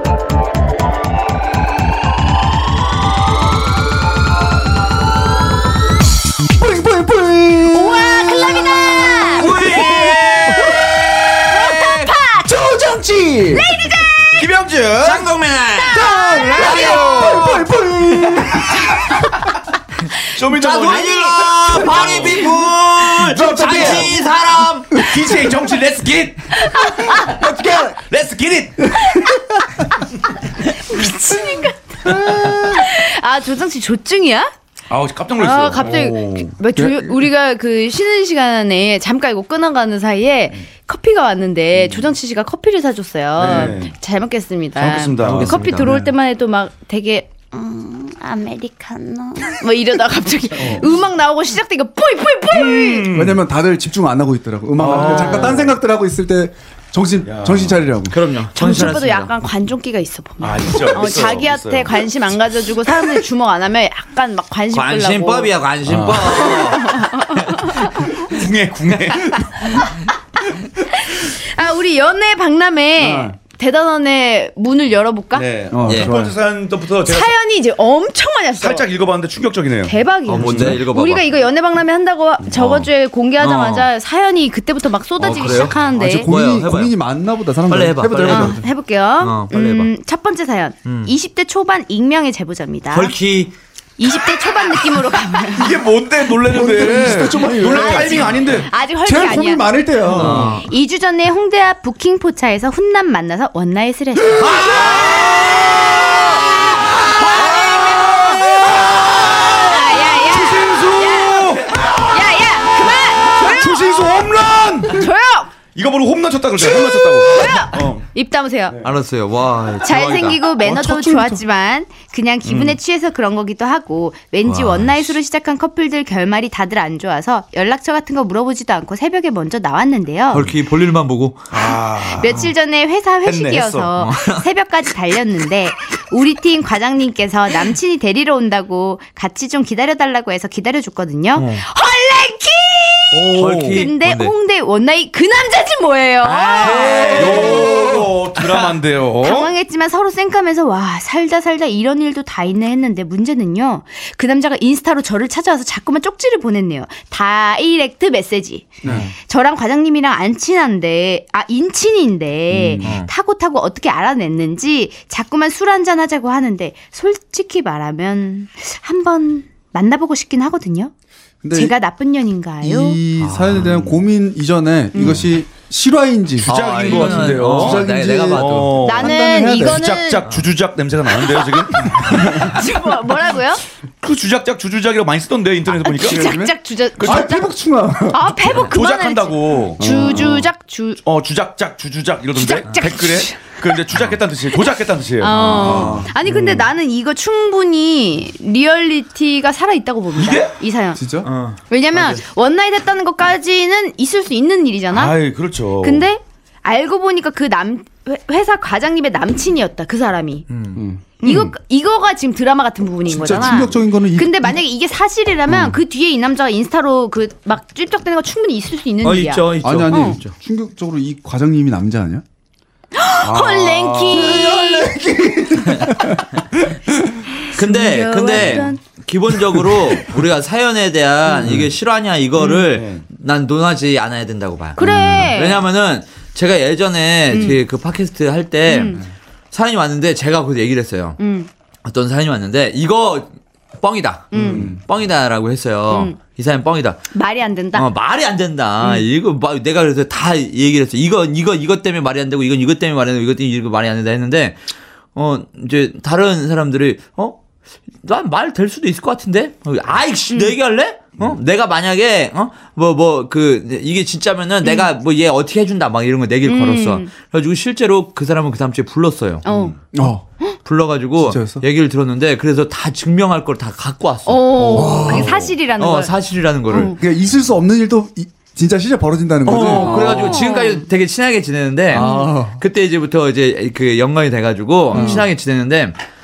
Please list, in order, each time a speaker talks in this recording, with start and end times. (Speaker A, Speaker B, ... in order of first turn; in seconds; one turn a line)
Speaker A: 6.5-10.8
Speaker B: 7.7-10.9
Speaker C: 9.4-12.2
Speaker B: 11.5-12.7
Speaker A: 12.4-13.8
Speaker B: 13.5-14.4
Speaker D: 14.3-15.3
Speaker C: 15.0-17.6
Speaker A: 15.8-19.3
Speaker B: 16.1-17.4
Speaker D: 16.4-17.5
Speaker D: 20.4-24.2
Speaker C: 20.4-25.0
Speaker B: 20.9-21.2
Speaker A: 21.8-22.3
Speaker A: 23.2-24.2
Speaker A: 24.9-25.7
Speaker D: 24.9-26.6
Speaker B: 26.5-27.4
Speaker A: 26.9-28.0
Speaker D: 27.4-29.0
Speaker A: 28.9-29.7
Speaker B: 29.0-30.1
Speaker B: 30.6-34.5
Speaker A: 32.0-32.9
Speaker D: 34.9-36.5
Speaker B: 35.4-53.1
Speaker A: 36.8-37.2
Speaker D: 41.8-42.1
Speaker D: 43.4-44.0
Speaker D: 44.8-45.6
Speaker C: 45.2-46.1
Speaker A: 45.8-46.1
Speaker D: 50.6-50.9
Speaker D: 52.5-53.4
Speaker A: 53.1-58.2
Speaker D: 54.8-55.8
Speaker C: 54.9-55.6
Speaker D: 57.2-57.8
Speaker C: 58.1-59.3
Speaker B: 58.5-65.5
Speaker D: 60.4-62.1
Speaker C: 64.7-67.6
Speaker A: 65.8-66.4
Speaker B: 66.2-68.3
Speaker D: 68.1-69.5
Speaker B: 69.1-70.0
Speaker B: 70.9-75.5
Speaker A: 73.0-73.4
Speaker D: 75.3-77.3
Speaker A: 75.7-76.4
Speaker C: 75.8-76.1
Speaker B: 77.0-78.9
Speaker D: 78.6-80.8
Speaker B: 79.9-86.3
Speaker C: 80.3-81.3
Speaker A: 80.4-80.8
Speaker C: 82.5-83.9
Speaker C: 85.2-87.0
Speaker A: 85.8-88.6
Speaker C: 87.7-88.6
Speaker B: 88.3-93.2
Speaker C: 89.2-89.9
Speaker C: 90.8-91.1
Speaker C: 92.9-93.5
Speaker B: 94.0-95.8
Speaker D: 95.5-98.7
Speaker A: 96.3-100.6
Speaker B: 97.6-104.5
Speaker C: 100.1-100.7
Speaker C: 104.4-106.4
Speaker A: 104.4-105.1
Speaker D: 104.5-106.5
Speaker B: 106.7-114.3
Speaker D: 107.2-112.0
Speaker D: 113.3-115.1
Speaker B: 114.9-115.5
Speaker D: 115.7-118.1
Speaker B: 116.6-118.8
Speaker C: 118.8-120.4
Speaker B: 119.8-130.5
Speaker A: 120.6-121.4
Speaker D: 122.5-122.8
Speaker C: 124.4-125.2
Speaker C: 130.3-131.5
Speaker D: 131.5-132.4
Speaker B: 132.2-148.0
Speaker D: 133.2-133.9
Speaker C: 134.0-134.4
Speaker C: 141.4-141.6
Speaker D: 143.1-143.8
Speaker C: 143.4-144.3
Speaker C: 146.2-147.8
Speaker D: 146.7-149.5
Speaker A: 146.8-148.1
Speaker B: 149.2-170.9
Speaker A: 158.8-159.1
Speaker C: 158.8-159.1
Speaker A: 162.5-162.9
Speaker C: 162.8-163.1
Speaker A: 171.4-171.7
Speaker B: 171.5-173.0
Speaker A: 172.6-179.9
Speaker C: 173.2-173.9
Speaker B: 174.9-175.2
Speaker D: 176.4-182.5
Speaker C: 176.5-178.8
Speaker B: 178.8-180.2
Speaker B: 181.1-183.6
Speaker A: 182.1-182.3
Speaker D: 184.0-186.3
Speaker B: 185.8-187.5
Speaker A: 185.9-188.3
Speaker D: 187.0-187.3
Speaker B: 188.1-191.0
Speaker D: 188.5-190.4
Speaker A: 189.8-190.4
Speaker D: 191.0-196.7
Speaker B: 192.3-193.8
Speaker B: 194.5-201.0
Speaker C: 195.2-196.0
Speaker A: 195.5-196.1
Speaker D: 200.2-200.6
Speaker A: 200.9-201.3
Speaker C: 201.2-202.2
Speaker B: 201.7-205.2
Speaker D: 204.9-206.1
Speaker B: 205.8-210.4
Speaker C: 210.5-210.8
Speaker A: 210.7-211.1
Speaker B: 211.2-220.2
Speaker D: 211.2-211.5
Speaker A: 213.1-214.6
Speaker C: 215.5-215.8
Speaker C: 219.0-220.3
Speaker A: 219.6-222.2
Speaker B: 222.9-224.9
Speaker D: 223.2-224.6
Speaker A: 224.1-227.3
Speaker B: 227.4-228.8
Speaker C: 227.5-241.2
Speaker A: 231.4-231.7
Speaker D: 232.7-233.0
Speaker B: 234.8-235.6
Speaker B: 237.3-237.6
Speaker B: 238.7-239.0
Speaker B: 241.2-241.5
Speaker C: 241.8-247.0
Speaker B: 244.3-244.7
Speaker D: 244.3-244.7
Speaker A: 244.5-244.8
Speaker B: 245.9-246.2
Speaker B: 247.1-247.9
Speaker C: 247.7-254.6
Speaker C: 255.2-257.4
Speaker C: 258.0-269.4
Speaker B: 264.6-264.9
Speaker B: 266.5-267.1
Speaker B: 269.4-269.8
Speaker D: 269.5-269.8
Speaker A: 269.9-270.2
Speaker C: 270.6-276.9
Speaker A: 271.2-271.6
Speaker B: 274.3-276.1
Speaker A: 274.7-275.4
Speaker B: 276.7-277.0
Speaker A: 276.8-280.4
Speaker C: 279.5-286.0
Speaker B: 279.6-280.9
Speaker A: 281.9-282.6
Speaker B: 281.9-282.3
Speaker A: 284.9-285.3
Speaker B: 284.9-285.2